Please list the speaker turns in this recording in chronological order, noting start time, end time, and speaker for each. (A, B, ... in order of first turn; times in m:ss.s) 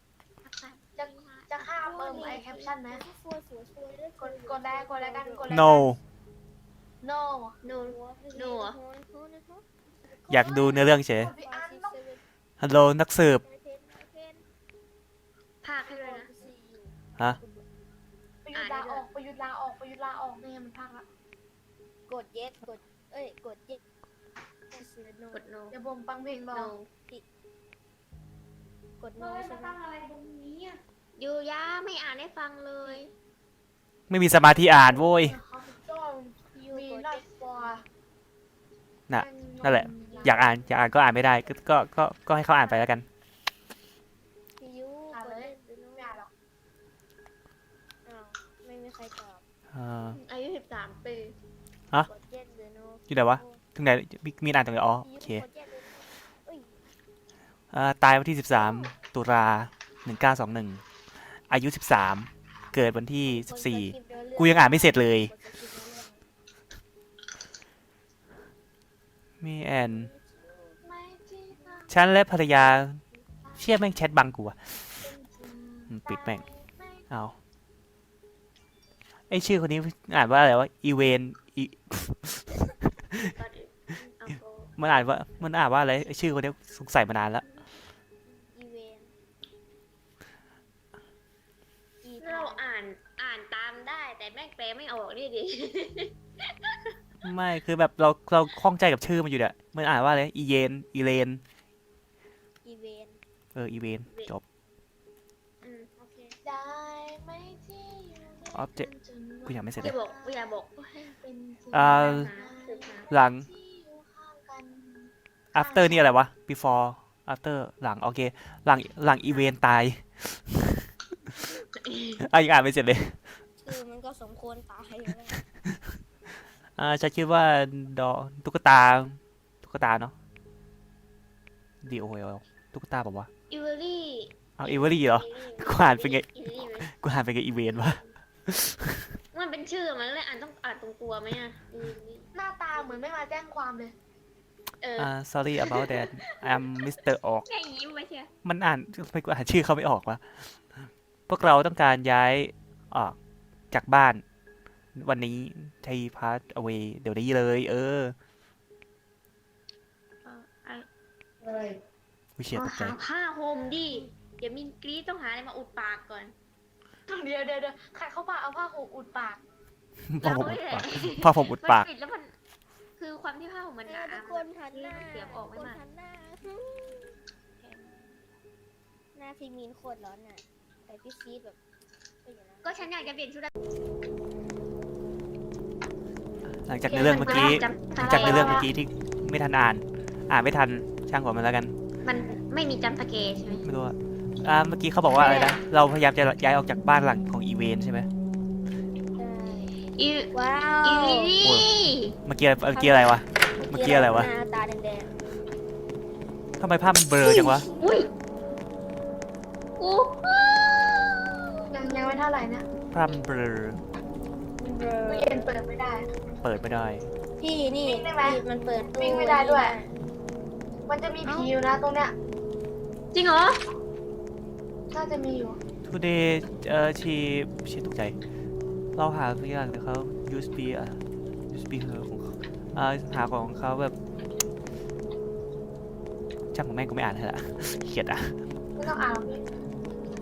0:00.4-0:02.4 A
0:01.0-0:03.0 B
0:01.8-0:05.7 C
0:04.2-0:06.0 B
0:05.5-0:06.0 D
0:07.0-0:07.6 B
0:07.6-0:08.8 A
0:07.9-0:12.2 C
0:10.3-0:11.3 D
0:11.2-0:12.0 B
0:12.6-0:13.4 D
0:13.4-0:14.4 C
0:15.6-0:16.3 A
0:15.9-0:17.6 C
0:18.4-0:21.1 B
0:18.5-0:19.1 A
0:22.1-0:23.8 C
0:24.7-0:25.4 C
0:25.3-0:25.8 A
0:25.7-0:26.7 B
0:26.5-0:26.9 A
0:29.0-0:29.8 C
0:29.2-0:33.1 A
0:34.1-0:35.4 D
0:34.6-0:37.8 B
0:36.5-0:37.8 C
0:39.1-0:43.1 D
0:39.2-0:40.4 B
0:40.1-0:40.5 C
0:44.6-0:46.2 C
0:45.1-0:46.3 B
0:48.0-0:49.4 C
0:49.7-0:50.2 D
0:50.1-0:51.4 A
0:52.1-0:53.6 C
0:53.1-0:55.4 D
0:55.0-0:56.7 C
0:57.7-1:00.8 D
1:01.4-1:05.3 D
1:03.2-1:06.2 C
1:09.4-1:10.1 D
1:09.9-1:10.8 C
1:10.8-1:11.9 B
1:11.6-1:11.9 C
1:11.9-1:13.0 D
1:13.6-1:14.6 D
1:15.0-1:17.0 B
1:15.9-1:16.4 D
1:17.1-1:17.4 D
1:19.3-1:23.3 D
1:23.2-1:24.7 A
1:24.8-1:27.4 D
1:28.5-1:29.1 C
1:32.0-1:32.7 C
1:32.2-1:36.1 A
1:37.2-1:41.4 D
1:42.6-1:43.2 C
1:43.6-1:44.4 D
1:45.6-1:45.9 A
1:46.0-1:46.4 C
1:46.4-1:50.5 B
1:48.5-1:48.9 D
1:49.4-1:50.0 D
1:49.8-1:51.2 A
1:51.2-1:56.2 B
1:51.7-1:52.3 D
1:51.8-1:53.1 A
1:53.1-1:53.5 D
1:55.5-2:00.9 D
2:01.8-2:02.2 A
2:02.2-2:03.2 D
2:03.6-2:05.4 C
2:06.8-2:10.1 D
2:11.8-2:13.3 D
2:13.5-2:14.4 A
2:14.6-2:16.3 D
2:15.2-2:16.9 A
2:16.8-2:19.2 D
2:17.7-2:18.0 A
2:19.3-2:23.0 A
2:22.4-2:23.9 B
2:24.8-2:26.1 A
2:25.0-2:27.5 D
2:27.5-2:28.3 A
2:28.4-2:33.2 D
2:33.7-2:34.2 D
2:35.0-2:38.2 D
2:40.2-2:40.9 A
2:41.4-2:41.8 A
2:42.4-2:43.0 D
2:42.5-2:46.4 A
2:47.1-2:49.4 B
2:50.1-2:51.9 D
2:50.2-2:52.3 A
2:53.0-2:55.8 A
2:53.8-2:57.2 C
2:57.6-2:58.0 A
2:59.2-3:01.6 C
3:02.2-3:03.2 C
3:02.6-3:03.5 A
3:06.6-3:11.7 D
3:06.9-3:08.7 B
3:07.0-3:08.7 A
3:12.0-3:13.6 A
3:13.6-3:18.1 D
3:15.2-3:15.6 A
3:19.2-3:19.8 C
3:20.0-3:20.3 A
3:20.3-3:21.3 C
3:20.8-3:22.2 A
3:21.4-3:21.7 D
3:22.3-3:24.3 D
3:22.7-3:25.1 C
3:26.6-3:27.7 D
3:27.2-3:27.9 C
3:27.8-3:28.1 A
3:29.8-3:31.5 A
3:31.7-3:32.6 B
3:32.9-3:33.8 D
3:34.6-3:35.5 C
3:35.1-3:36.1 B
3:36.4-3:37.1 D
3:37.4-3:39.9 C
3:37.8-3:38.4 B
3:39.0-3:39.8 B
3:40.9-3:42.1 B
3:41.2-3:41.5 C
3:43.1-3:43.6 A
3:44.9-3:45.6 B
3:45.9-3:48.2 D
3:49.0-3:51.0 D
3:51.5-3:53.9 D
3:56.5-3:58.4 D
3:58.8-3:59.4 B